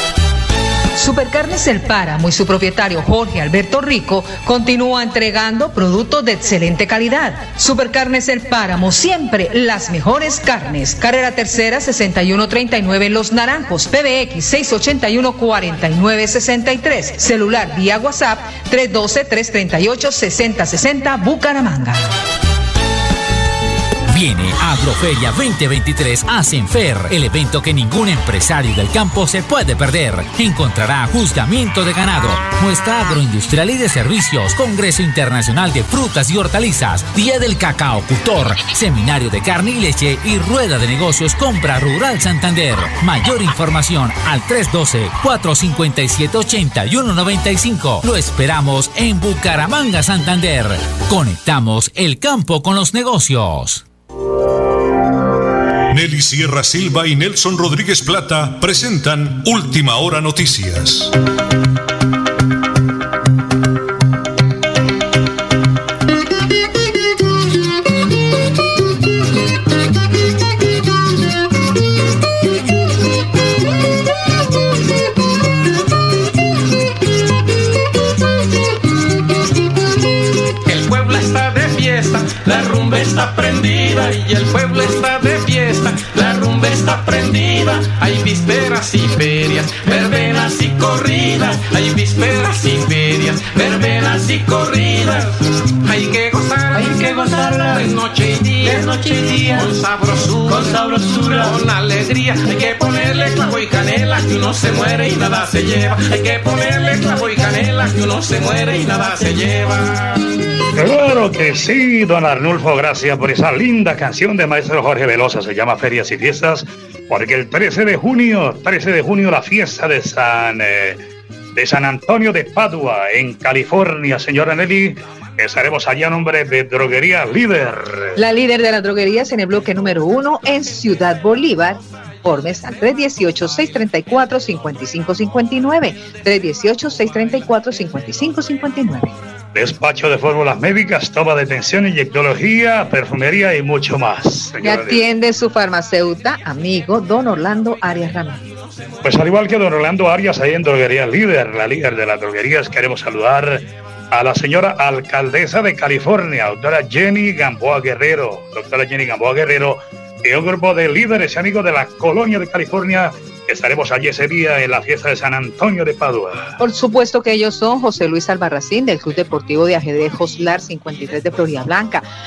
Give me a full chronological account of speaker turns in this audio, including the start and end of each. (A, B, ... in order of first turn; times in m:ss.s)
0:01.0-0:22.0 A
0:24.1-0:53.8 B
0:55.9-1:01.2 C
1:20.6-1:50.3 D
1:50.8-2:01.0 E
2:01.6-2:08.2 E
2:08.2-2:19.1 A
2:19.6-2:25.0 E
2:24.6-2:28.5 A
2:29.0-2:46.5 E
2:46.6-2:52.0 A